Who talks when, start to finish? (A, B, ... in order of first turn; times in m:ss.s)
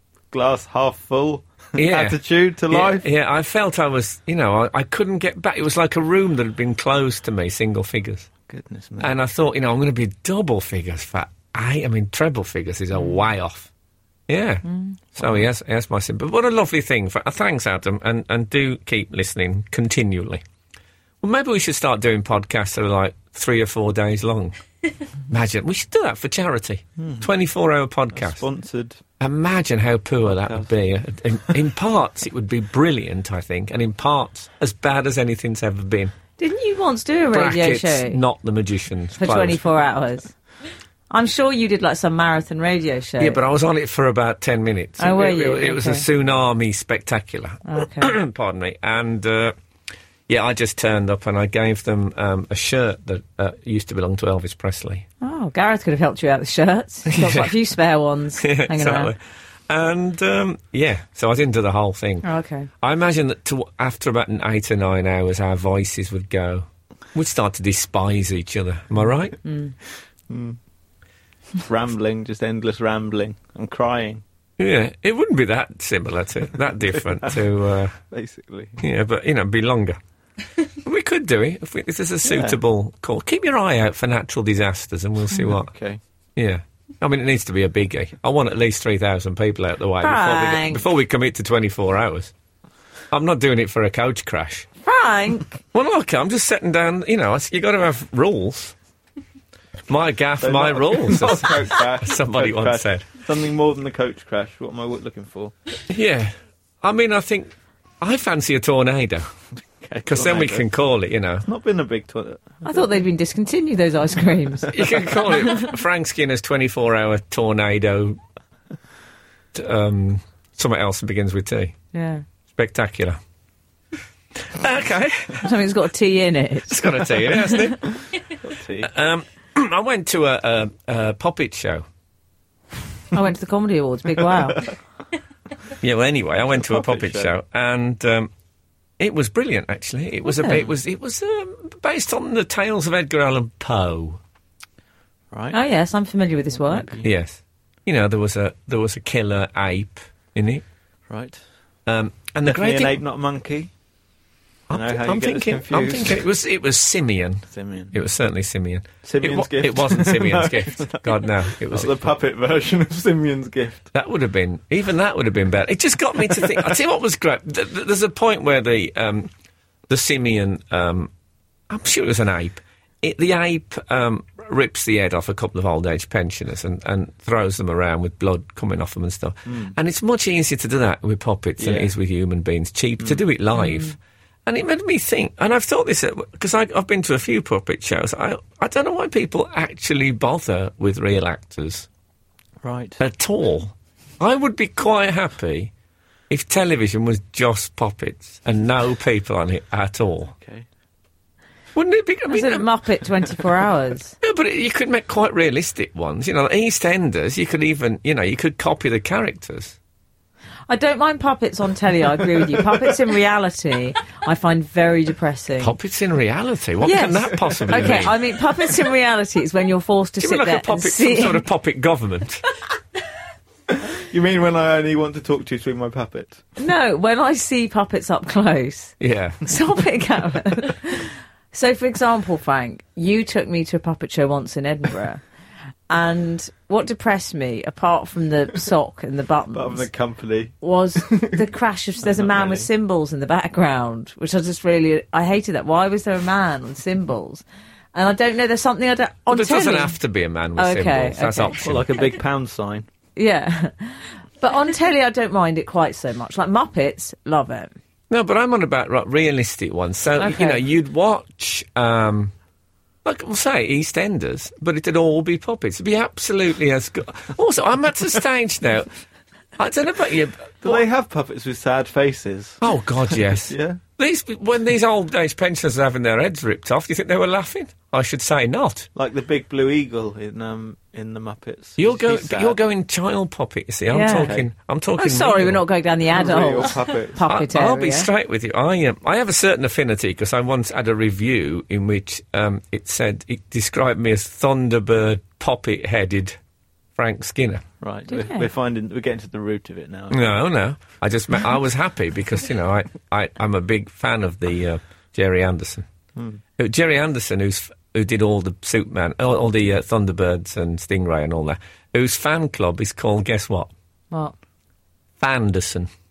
0:00.3-0:03.0 A
0:01.8-0:08.3 B
0:08.5-0:09.1 A
0:09.0-0:13.7 B
0:14.3-0:20.4 B
0:14.6-0:15.0 C
0:15.2-0:15.4 A
0:21.2-0:24.6 B
0:25.3-0:28.4 B
0:27.0-0:27.3 A
0:28.1-0:29.0 A
0:29.2-0:36.1 B
0:30.2-0:30.7 A
0:36.4-0:38.2 C
0:37.3-0:39.6 B
0:39.2-0:40.3 C
0:41.1-0:43.4 C
0:43.2-0:49.5 B
0:45.0-0:46.0 C
0:47.6-0:48.1 C
0:50.3-0:55.0 B
0:55.2-0:59.1 C
0:57.1-0:57.5 B
0:58.4-1:02.2 B
1:02.2-1:02.7 C
1:02.8-1:09.4 B
1:09.4-1:09.7 C
1:10.3-1:10.6 A
1:11.6-1:14.2 A
1:14.6-1:18.0 B
1:18.1-1:18.8 A
1:18.8-1:20.0 B
1:20.8-1:25.7 B
1:22.2-1:22.6 A
1:25.4-1:26.0 A
1:26.4-1:32.3 B
1:30.0-1:30.8 C
1:33.1-1:34.7 B
1:34.8-1:35.6 C
1:35.7-1:38.7 B
1:39.9-1:43.1 B
1:40.4-1:45.5 A
1:45.9-1:49.3 B
1:49.8-1:50.7 A
1:50.0-1:51.5 B
1:51.4-1:52.9 A
1:52.6-1:55.6 C
1:54.7-1:55.0 A
1:54.7-1:58.2 B
1:59.5-2:01.8 B
2:01.9-2:02.2 C
2:02.5-2:03.2 B
2:04.4-2:05.5 B
2:05.4-2:06.8 C
2:06.7-2:07.9 B
2:08.4-2:08.9 A
2:08.8-2:11.8 B
2:13.1-2:14.6 C
2:15.8-2:18.3 B
2:16.6-2:17.3 A
2:19.0-2:24.2 B
2:20.2-2:20.6 C
2:25.3-2:25.6 A
2:25.5-2:27.0 C
2:26.6-2:27.1 A
2:27.0-2:30.6 B
2:31.1-2:31.4 A
2:31.8-2:33.0 B
2:32.4-2:33.7 A
2:34.7-2:42.1 B
2:34.7-2:36.2 A
2:37.5-2:37.9 A
2:39.0-2:41.1 A
2:41.7-2:43.9 A
2:43.9-2:49.3 B
2:49.9-2:51.1 B
2:51.7-3:11.9 B
2:59.5-2:59.7 A
3:01.6-3:01.9 A
3:03.6-3:03.9 C
3:12.6-3:13.0 A
3:13.0-3:15.7 B
3:16.3-3:20.3 B
3:20.3-3:20.6 A
3:21.7-3:22.6 B
3:22.3-3:24.2 C
3:24.2-3:29.8 B
3:30.7-3:35.7 C
3:35.6-3:38.2 B
3:36.8-3:41.4 C
3:37.4-3:38.1 A
3:40.2-3:42.4 B
3:43.7-3:46.4 A
3:46.6-3:55.2 C
3:49.0-3:49.4 B
3:55.9-3:59.9 C
3:59.5-4:01.4 A
4:00.6-4:09.9 C
4:02.0-4:02.7 A
4:09.3-4:12.0 B
4:10.6-4:12.0 C
4:11.6-4:12.9 A
4:13.2-4:17.7 C
4:18.1-4:22.3 B
4:20.2-4:20.6 C
4:23.0-4:28.9 B
4:29.6-4:30.8 B
4:30.6-4:32.6 A
4:32.6-4:38.9 B
4:33.4-4:33.8 A
4:38.9-4:42.6 A
4:41.8-4:45.6 B
4:43.9-4:44.4 C
4:44.2-4:44.4 A
4:45.0-4:48.1 C
4:46.1-4:47.2 A
4:47.2-4:56.4 B
4:57.0-4:57.6 B
4:57.8-5:00.4 A
4:58.1-4:58.5 C
5:00.1-5:05.8 B
5:06.2-5:06.4 A
5:06.6-5:13.7 B
5:15.2-5:15.9 B